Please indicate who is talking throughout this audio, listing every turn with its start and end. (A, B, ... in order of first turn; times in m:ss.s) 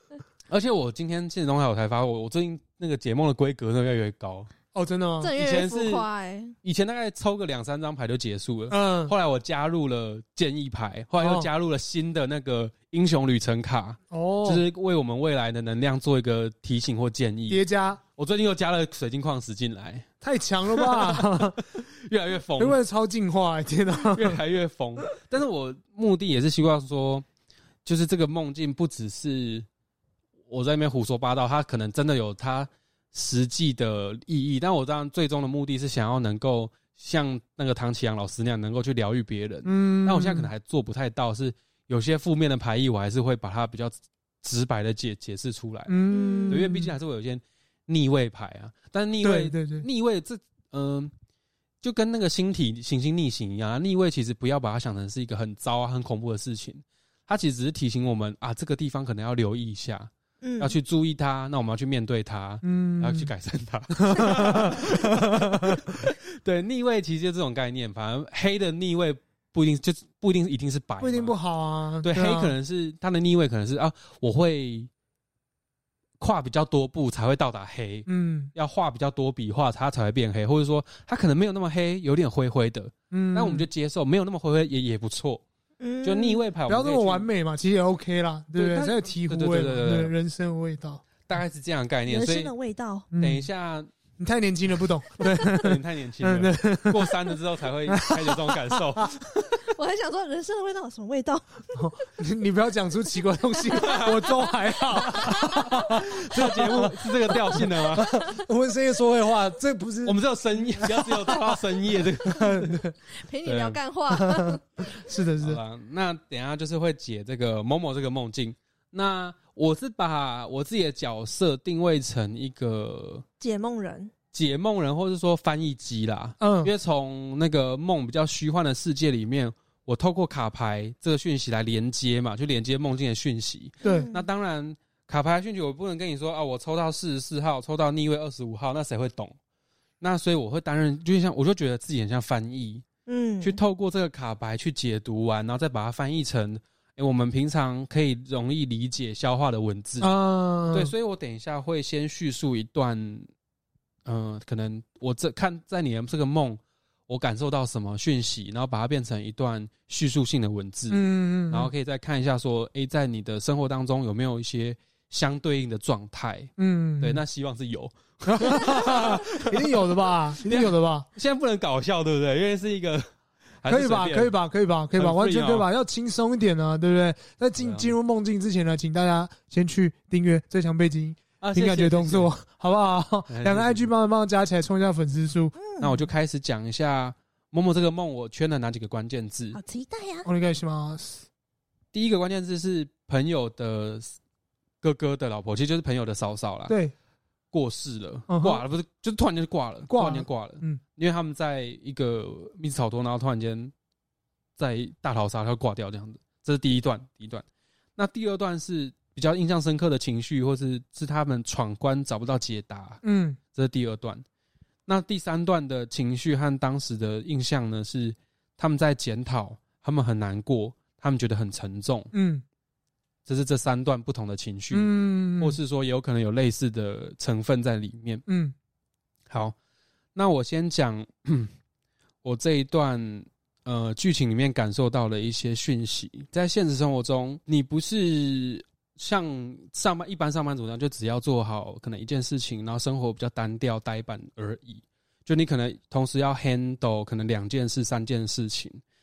0:00.5-0:04.5 A
0:04.7-0:05.3 B
0:05.2-0:06.5 C
0:05.4-0:06.0 A
0:06.6-0:17.6 A
0:08.7-0:09.1 B
0:11.2-0:11.5 B
0:14.1-0:14.6 B
0:17.5-0:18.0 B
0:18.2-0:20.1 A
0:20.2-0:21.6 B
0:20.7-0:22.8 A
0:22.6-0:24.4 B
0:24.0-0:27.2 A
0:27.8-0:29.7 A
0:30.5-0:51.1 A
0:39.6-0:40.5 B
0:45.9-0:46.9 B
0:46.1-0:46.6 C
0:49.2-0:49.9 B
0:51.8-1:11.3 A
1:00.4-1:00.8 C
1:02.6-1:03.3 B
1:04.0-1:06.1 B
1:11.0-1:12.5 B
1:12.0-1:14.9 A
1:16.2-1:25.4 A
1:18.1-1:18.5 B
1:23.1-1:23.7 B
1:25.8-1:26.4 C
1:26.0-1:27.3 A
1:26.7-1:31.0 B
1:28.6-1:30.1 A
1:31.3-1:32.5 A
1:32.1-1:33.1 C
1:33.1-1:33.5 B
1:33.2-1:33.9 A
1:34.2-1:37.2 B
1:35.4-1:39.2 A
1:37.9-1:39.2 B
1:39.7-1:42.0 C
1:41.8-1:51.6 B
1:43.7-1:44.5 A
1:43.8-1:46.0 C
1:45.1-1:48.2 A
1:50.0-1:52.8 A
1:52.2-1:52.9 B
1:53.1-1:54.8 C
1:53.4-1:53.8 A
1:54.1-1:55.6 B
1:55.4-2:03.2 A
2:03.4-2:04.1 C
2:04.3-2:19.3 A
2:06.4-2:06.7 B
2:13.8-2:14.2 C
2:20.0-2:22.8 A
2:23.0-2:23.6 C
2:23.4-2:30.1 A
2:30.0-2:30.9 B
2:30.7-2:33.3 A
2:34.0-2:53.1 A
2:40.9-2:41.7 B
2:46.6-2:47.2 B
2:48.3-2:51.1 B
2:53.6-2:54.3 A
2:53.6-3:05.5 B
2:55.0-2:55.7 A
2:57.6-2:57.9 A
3:01.4-3:02.3 A
3:03.3-3:03.9 A
3:05.6-3:06.0 C
3:05.8-3:09.6 A
3:09.5-3:10.3 C
3:10.2-3:11.2 B
3:11.9-3:14.1 A
3:14.8-3:16.8 A
3:16.7-3:16.9 B
3:17.5-3:23.7 A
3:18.3-3:18.6 B
3:19.9-3:20.8 B
3:24.6-3:27.4 A
3:28.0-3:33.0 A
3:33.0-3:33.4 B
3:33.5-3:34.2 A
3:34.9-3:42.1 A
3:42.1-3:42.4 B
3:43.2-3:48.2 A
3:44.7-3:45.6 B
3:48.3-3:48.5 B
3:49.3-3:49.5 A
3:50.1-3:51.5 A
3:52.2-4:08.8 A